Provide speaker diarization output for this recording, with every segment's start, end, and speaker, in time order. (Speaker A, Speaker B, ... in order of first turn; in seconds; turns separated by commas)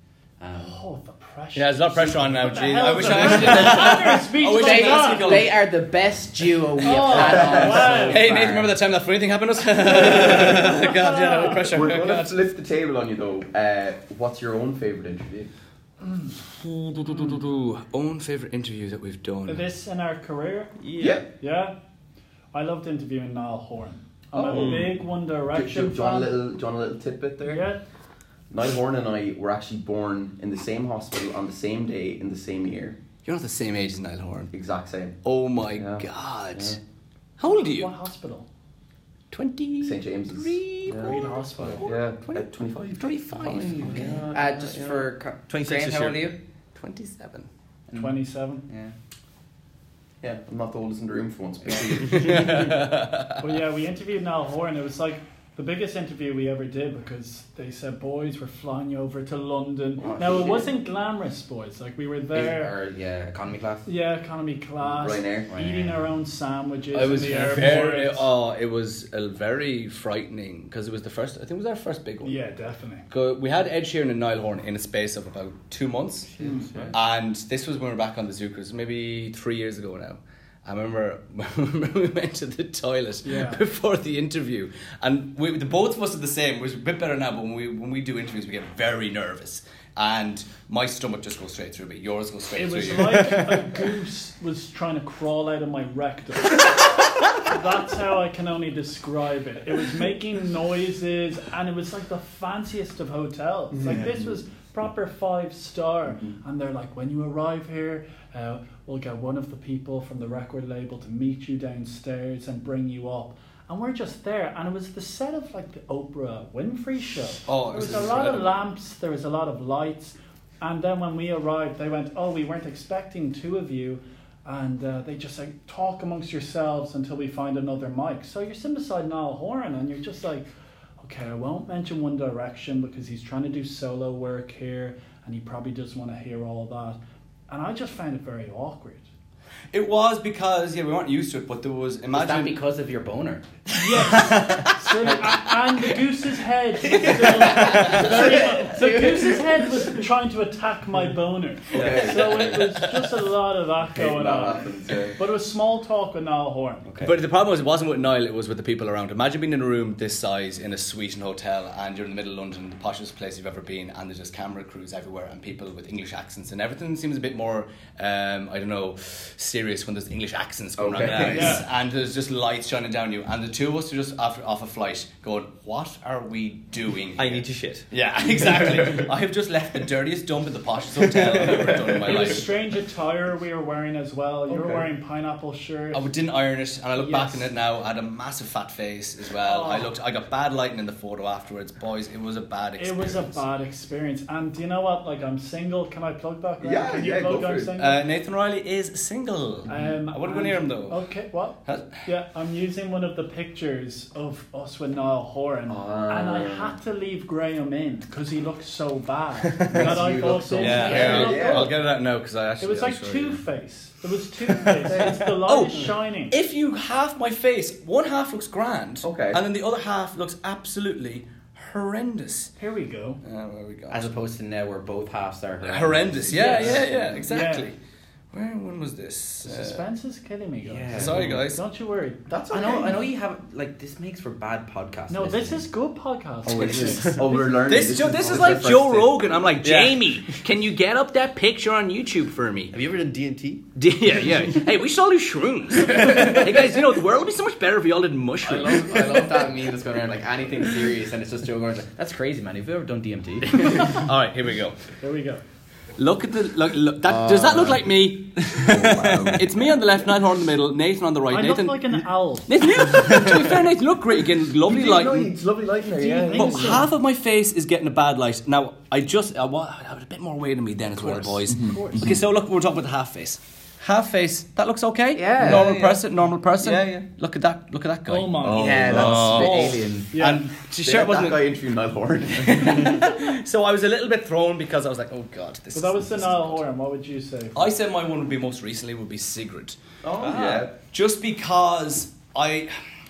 Speaker A: 0.4-0.8, Speaker B: 0.5-5.5, Speaker C: 1.5-5.6, Speaker A: 3.4-3.8, Speaker A: 4.5-8.8, Speaker B: 6.8-8.3, Speaker D: 7.0-8.0, Speaker C: 7.5-12.4, Speaker D: 9.9-10.7, Speaker B: 10.0-11.7, Speaker D: 11.6-15.5, Speaker C: 16.5-19.6, Speaker B: 19.4-20.8, Speaker E: 20.8-21.2, Speaker D: 21.0-21.2, Speaker B: 21.4-21.7, Speaker B: 22.5-26.4, Speaker D: 24.3-24.9, Speaker E: 24.5-24.9, Speaker D: 25.5-27.7, Speaker B: 27.4-27.8, Speaker D: 28.5-33.0, Speaker C: 33.2-34.5, Speaker D: 34.5-35.2, Speaker C: 35.2-36.8, Speaker D: 35.8-36.8, Speaker C: 37.4-37.9, Speaker B: 37.5-38.5, Speaker C: 39.3-44.2, Speaker D: 39.8-41.1, Speaker B: 41.0-41.9, Speaker D: 41.8-45.0, Speaker A: 43.8-46.4, Speaker E: 44.0-44.7, Speaker E: 45.5-46.3, Speaker C: 46.7-47.5, Speaker A: 47.9-48.9, Speaker B: 47.9-48.7, Speaker D: 50.2-52.7, Speaker A: 51.6-52.0, Speaker C: 52.1-53.5, Speaker B: 53.4-62.8, Speaker A: 60.0-60.7, Speaker A: 62.3-63.9, Speaker B: 63.9-68.3, Speaker D: 64.8-65.5, Speaker A: 65.5-66.1, Speaker C: 66.9-72.4, Speaker B: 72.2-73.1, Speaker C: 73.1-76.3, Speaker A: 76.4-76.9, Speaker D: 76.4-76.9, Speaker C: 76.9-93.7, Speaker B: 83.2-83.6, Speaker B: 92.5-130.5, Speaker D: 103.7-104.4, Speaker C: 117.5-118.6, Speaker B: 131.0-139.0, Speaker C: 139.7-142.6, Speaker A: 142.1-143.4, Speaker B: 143.7-154.6, Speaker C: 143.8-145.8, Speaker C: 146.9-148.1, Speaker A: 147.0-149.9, Speaker D: 151.7-152.8, Speaker C: 152.1-152.8, Speaker D: 153.9-155.2, Speaker B: 155.2-156.8, Speaker A: 156.8-157.2, Speaker C: 157.0-182.5, Speaker D: 170.8-171.6, Speaker E: 171.0-171.6, Speaker B: 171.2-171.7, Speaker E: 177.2-177.9, Speaker D: 178.6-179.0, Speaker B: 182.0-186.1, Speaker D: 184.5-184.9, Speaker C: 185.9-193.4, Speaker B: 186.9-187.5, Speaker B: 189.4-189.9, Speaker B: 192.8-198.0, Speaker D: 196.6-197.7, Speaker C: 197.8-201.1, Speaker B: 199.7-211.8, Speaker C: 201.6-202.0, Speaker D: 205.7-206.8, Speaker D: 209.7-211.7, Speaker C: 210.6-213.4, Speaker A: 210.8-211.2, Speaker B: 212.6-216.3, Speaker C: 214.7-222.5, Speaker D: 214.8-215.2, Speaker D: 219.0-219.4, Speaker B: 222.6-223.2, Speaker C: 223.2-224.1, Speaker A: 223.9-227.2, Speaker C: 225.6-227.8, Speaker B: 226.3-227.7, Speaker C: 228.3-229.8, Speaker B: 229.4-232.2, Speaker A: 230.6-231.4, Speaker C: 230.9-231.6, Speaker D: 232.3-233.0, Speaker A: 232.5-235.7, Speaker B: 235.1-237.6, Speaker D: 236.4-239.2, Speaker C: 237.6-242.7, Speaker E: 239.6-240.2, Speaker E: 242.7-243.6, Speaker C: 243.7-249.3, Speaker A: 248.4-254.0, Speaker C: 253.5-254.8, Speaker B: 255.0-255.4, Speaker C: 255.9-265.3, Speaker D: 257.1-257.8, Speaker A: 257.2-257.7, Speaker D: 258.5-259.6, Speaker B: 261.3-263.2, Speaker D: 264.6-266.9, Speaker B: 266.0-266.8, Speaker A: 266.2-266.7, Speaker C: 266.3-281.4, Speaker B: 271.0-272.1, Speaker D: 271.5-272.1, Speaker A: 275.1-276.0, Speaker D: 275.4-275.9, Speaker D: 276.6-277.0, Speaker B: 278.1-279.0, Speaker D: 278.4-279.7, Speaker A: 278.5-280.1, Speaker E: 278.9-279.5, Speaker B: 280.1-280.5, Speaker D: 280.8-283.1, Speaker C: 282.4-286.6, Speaker B: 285.7-287.7, Speaker C: 287.5-289.8, Speaker D: 290.0-290.7, Speaker E: 290.2-290.7, Speaker C: 290.3-292.8